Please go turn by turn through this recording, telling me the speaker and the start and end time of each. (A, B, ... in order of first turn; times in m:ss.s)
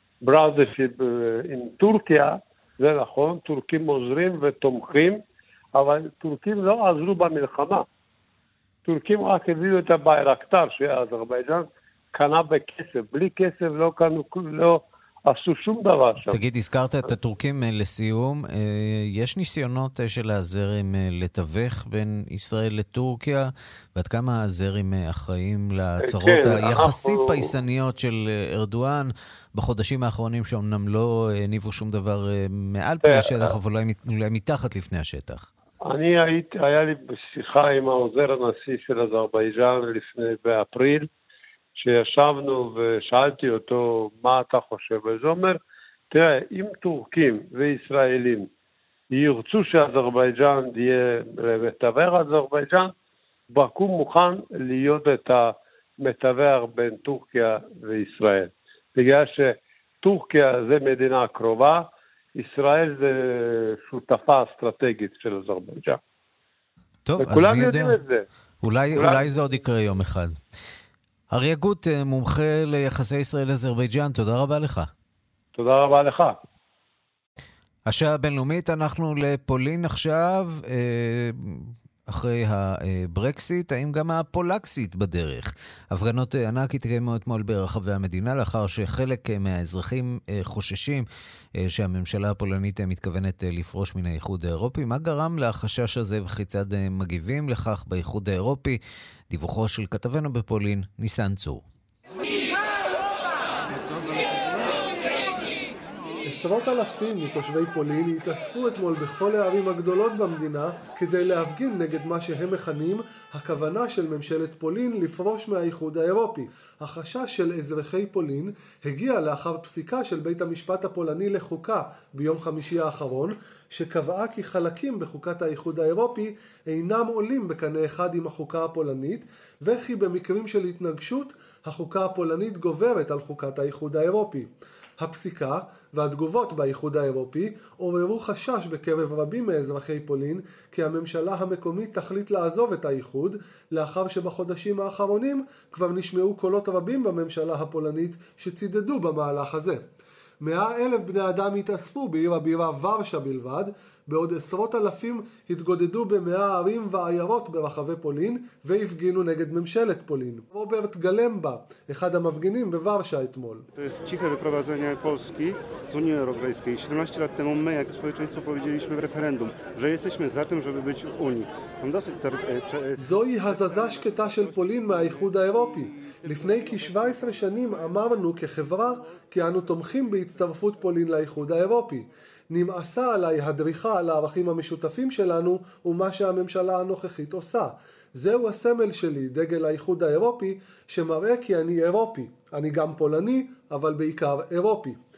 0:00.2-0:05.2 A
0:05.7-0:07.8 A
0:08.8-0:16.4 A
0:16.3-0:35.5 B
0:26.0-0:27.4 A
0:33.1-0:33.5 A
0:35.8-0:41.1 A
0:41.8-0:45.6 A
0:46.1-0:48.5 A
0:49.1-0:52.9 A
0:53.5-1:06.0 A
1:07.0-1:08.0 B
1:07.2-1:08.2 A
1:08.6-1:10.3 B
1:08.9-1:09.6 A
1:11.3-1:14.9 B
1:15.5-1:16.3 A
1:17.8-1:31.0 B
1:31.6-1:38.8 B
1:39.3-1:41.6 B
1:46.2-2:29.8 C
2:30.4-2:43.6 C
2:43.8-2:59.2 D
2:53.0-3:15.0 C
3:00.2-3:00.8 D